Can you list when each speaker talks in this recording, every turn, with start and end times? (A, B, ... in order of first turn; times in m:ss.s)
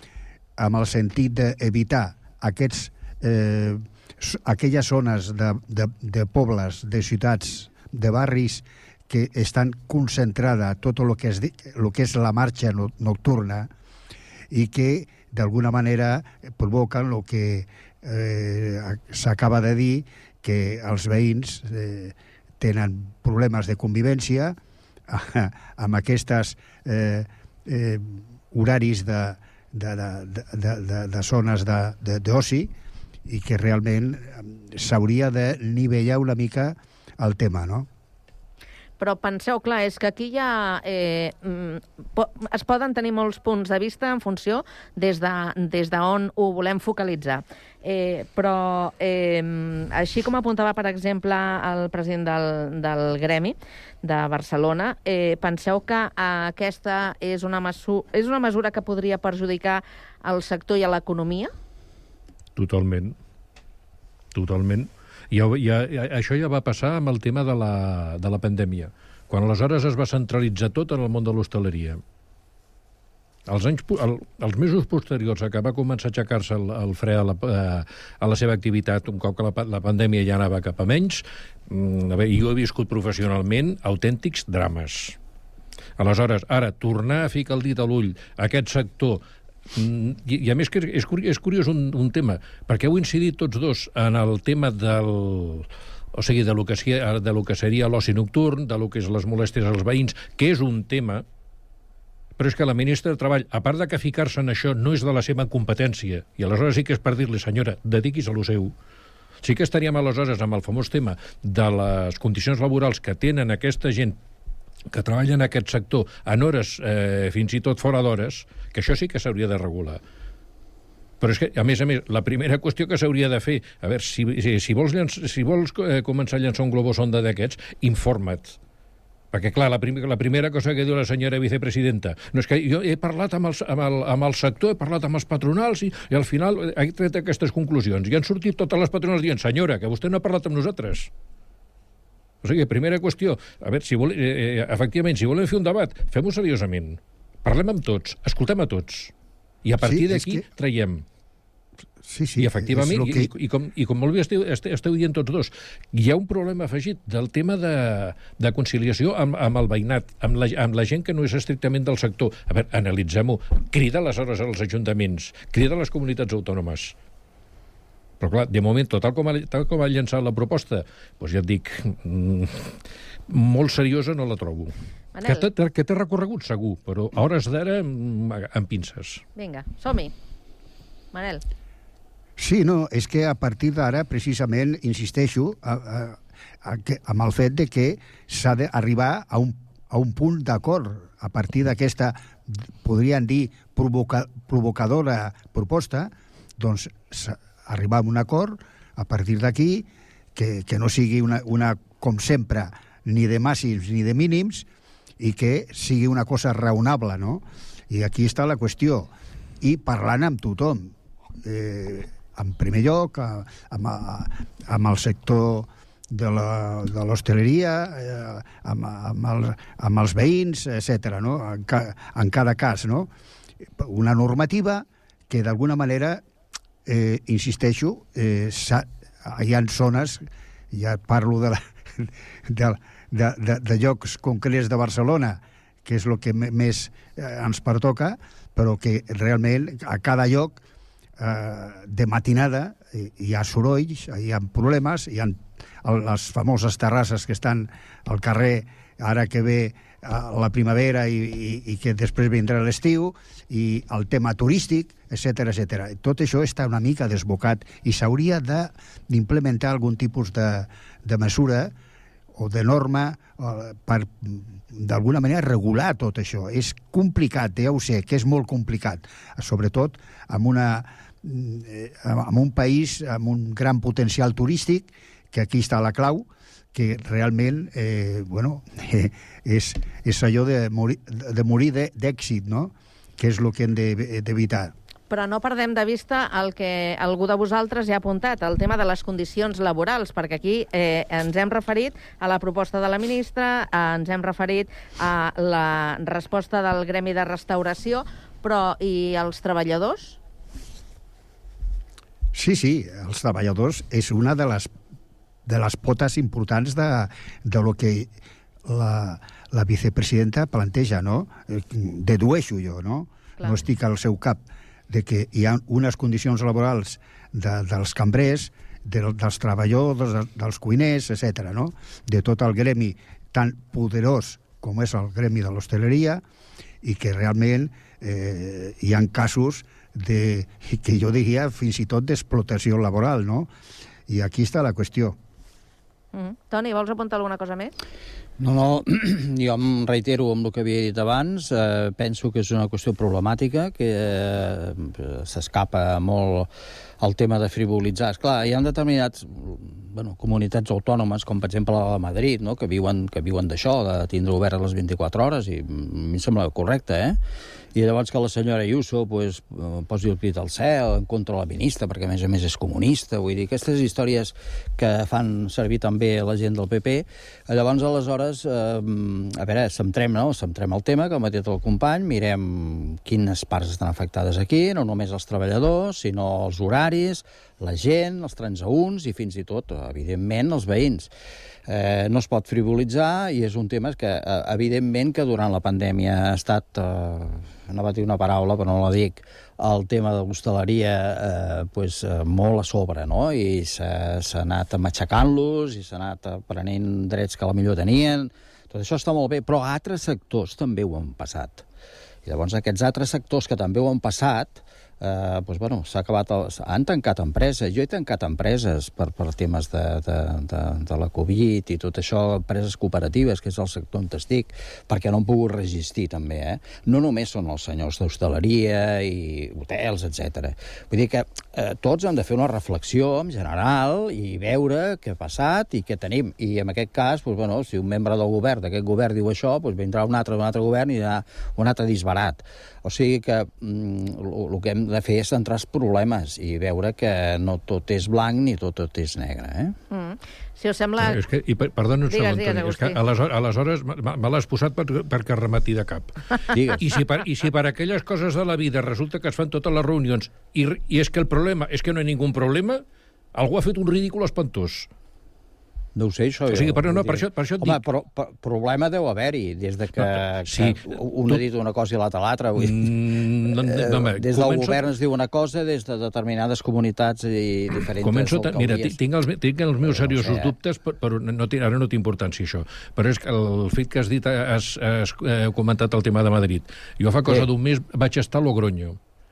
0:00.6-0:13.7 A
0:14.5-0:24.6 A
0:25.1-0:32.7 A
0:33.2-0:37.9 A
0:39.0-1:01.5 B
1:02.6-1:03.2 C
1:04.3-1:12.0 C
1:13.5-1:25.2 C
1:26.0-1:29.2 C
1:29.7-1:41.2 C
1:42.4-1:48.7 C
1:49.4-1:54.2 C
1:54.9-2:00.0 C
2:01.2-2:08.6 C
2:09.3-2:21.1 C
2:22.4-2:29.1 C
2:29.6-2:31.0 C
2:29.8-2:30.4 A
2:32.0-2:33.3 A
2:32.4-2:46.9 C
2:48.2-2:52.8 C
2:53.3-2:54.7 C
2:55.1-2:55.5 B
2:55.2-2:59.2 C
2:59.4-3:00.1 B
3:01.1-3:01.4 B
3:02.4-3:24.6 A
3:25.2-3:29.1 A
3:29.6-3:30.9 A
3:31.4-3:43.1 A
3:43.8-3:46.2 A
3:46.8-4:00.6 A
4:01.2-4:21.7 A
4:22.3-4:44.7 A
4:45.1-5:00.2 B
5:02.3-5:04.7 A
5:05.4-5:08.1 A
5:08.6-5:26.2 A
5:26.8-5:33.5 A
5:34.1-5:35.2 A
5:36.1-5:37.7 B
5:38.4-5:46.5 D
5:47.0-5:57.2 D
5:57.7-6:21.1 D
6:21.7-6:41.6 D
6:42.2-7:19.8 D
7:19.9-7:21.2 B
7:21.0-7:32.8 C
7:22.1-7:23.0 B
7:26.5-7:26.9 D
7:33.3-7:34.9 C
7:36.0-7:49.0 D
7:36.5-7:37.8 C
7:40.0-7:41.4 C
7:42.6-7:44.9 C
7:48.0-7:59.0 C
7:49.8-7:50.5 D